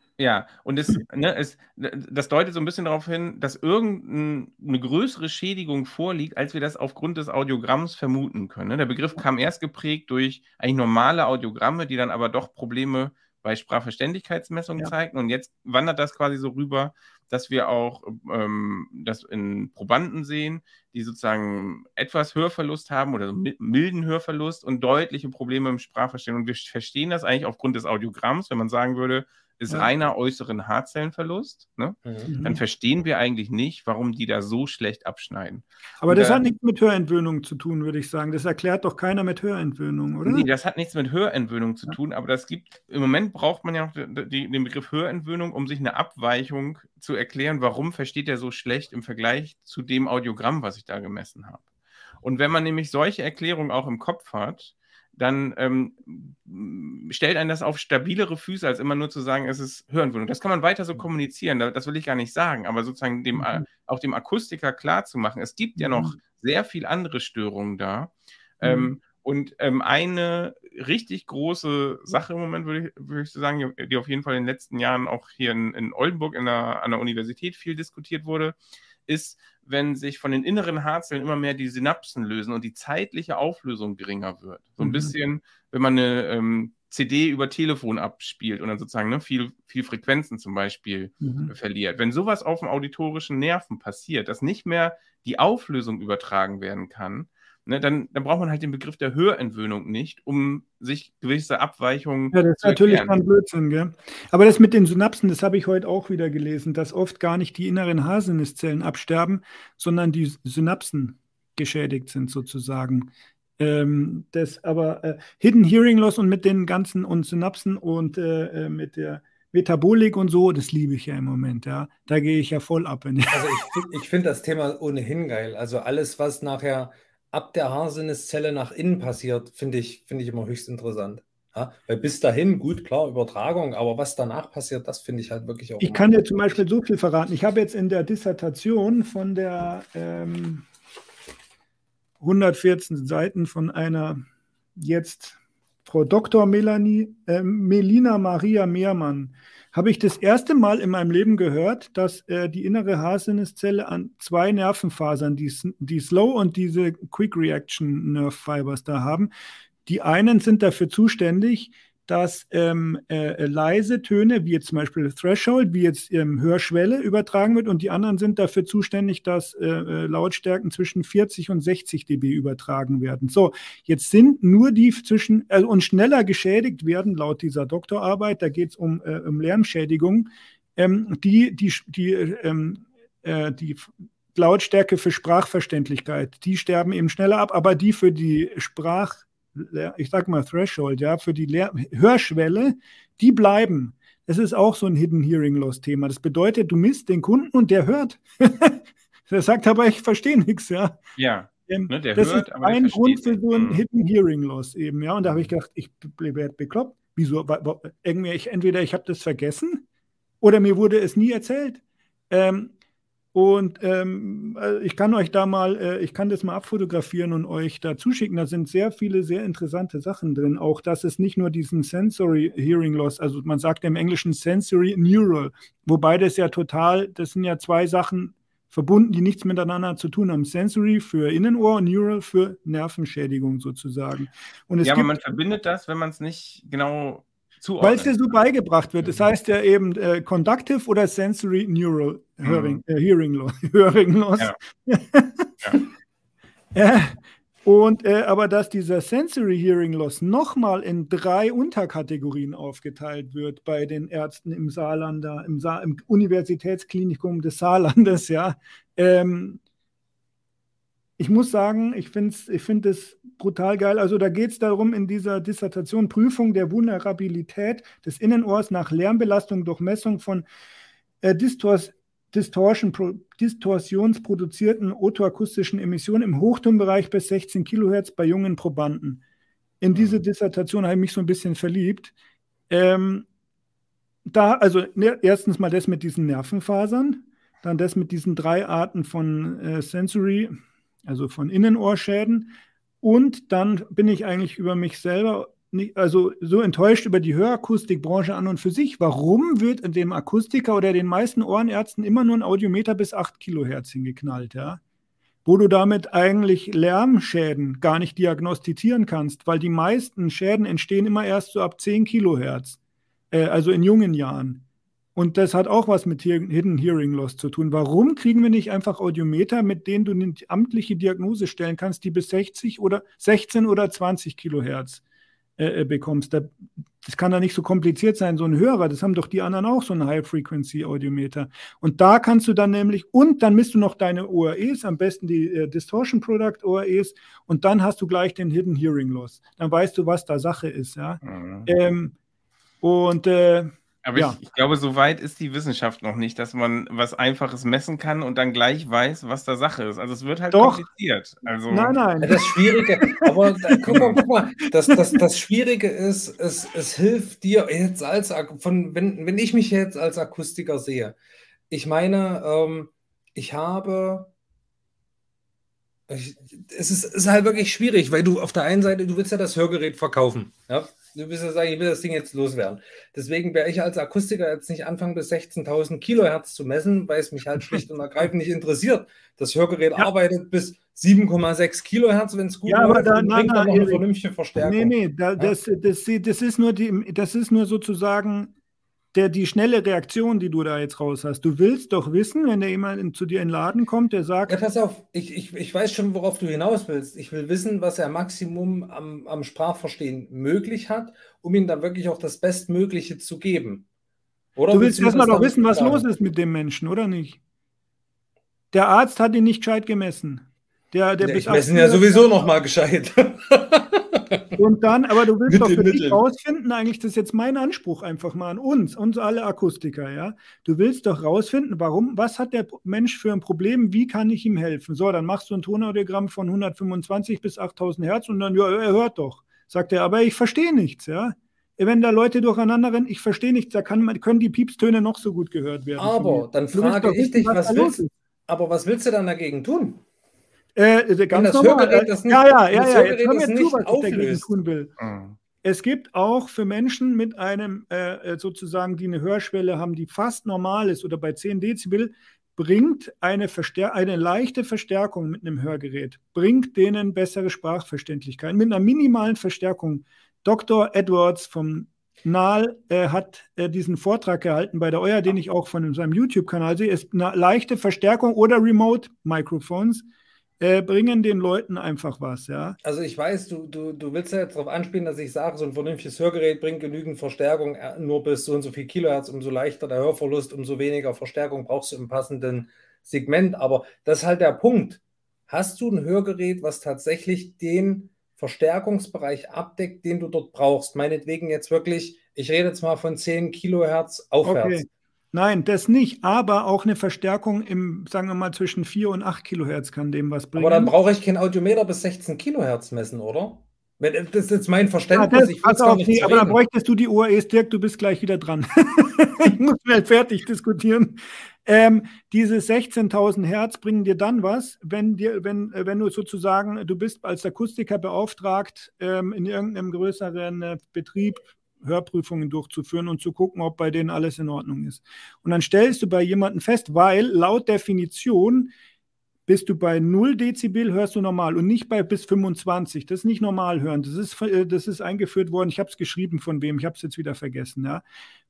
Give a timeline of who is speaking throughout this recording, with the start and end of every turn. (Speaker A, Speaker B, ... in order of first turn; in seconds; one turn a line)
Speaker A: 0.2-36.4
Speaker B: 32.3-32.6
Speaker B: 36.0-40.5
Speaker A: 40.2-51.6
Speaker A: 52.2-78.6
Speaker B: 63.4-63.6
Speaker B: 65.8-66.2
Speaker B: 68.6-69.0
Speaker A: 79.1-103.2
Speaker B: 84.8-85.1
Speaker B: 91.2-91.5
Speaker B: 102.3-123.7
Speaker C: 123.3-136.2
Speaker B: 135.8-140.7
Speaker B: 142.2-144.2
Speaker B: 144.8-159.3
Speaker B: 159.9-201.0
Speaker A: 201.2-203.8
Speaker B: 201.7-209.8
Speaker A: 205.2-205.5
Speaker B: 210.4-212.7
Speaker B: 213.3-235.1
Speaker A: 234.8-238.2
Speaker B: 237.8-245.8
Speaker A: 242.4-242.8
Speaker B: 246.8-259.6
Speaker B: 261.2-270.5
Speaker B: 271.2-279.2
Speaker B: 279.8-282.1
Speaker A: 279.9-280.2
Speaker B: 282.7-283.3
Speaker B: 284.3-304.8
Speaker B: 305.4-312.8
Speaker B: 313.3-314.6
Speaker B: 315.1-325.0
Speaker B: 325.6-342.1
Speaker A: 341.2-341.7
Speaker B: 342.8-344.4
Speaker A: 344.0-352.0
Speaker B: 350.5-350.8
Speaker B: 351.7-353.8
Speaker C: 352.2-361.2
Speaker A: 353.9-354.2
Speaker B: 354.7-355.2
Speaker C: 361.7-364.3
Speaker C: 366.1-385.6
Speaker B: 382.7-384.0
Speaker B: 384.6-388.5
Speaker B: 389.1-394.6
Speaker C: 394.5-403.9
Speaker C: 404.6-406.1
Speaker B: 404.7-407.4
Speaker B: 408.7-412.5
Speaker C: 411.2-414.6
Speaker B: 414.6-438.1
Speaker C: 415.5-416.2
Speaker C: 436.0-440.0
Speaker B: 440.8-444.9
Speaker C: 441.3-444.5
Speaker A: 445.0-445.4
Speaker B: 445.6-470.1
Speaker B: 470.6-472.8
Speaker C: 472.8-494.8
Speaker B: 494.4-500.9
Speaker C: 500.6-506.6
Speaker B: 505.1-528.7
Speaker B: 529.5-538.0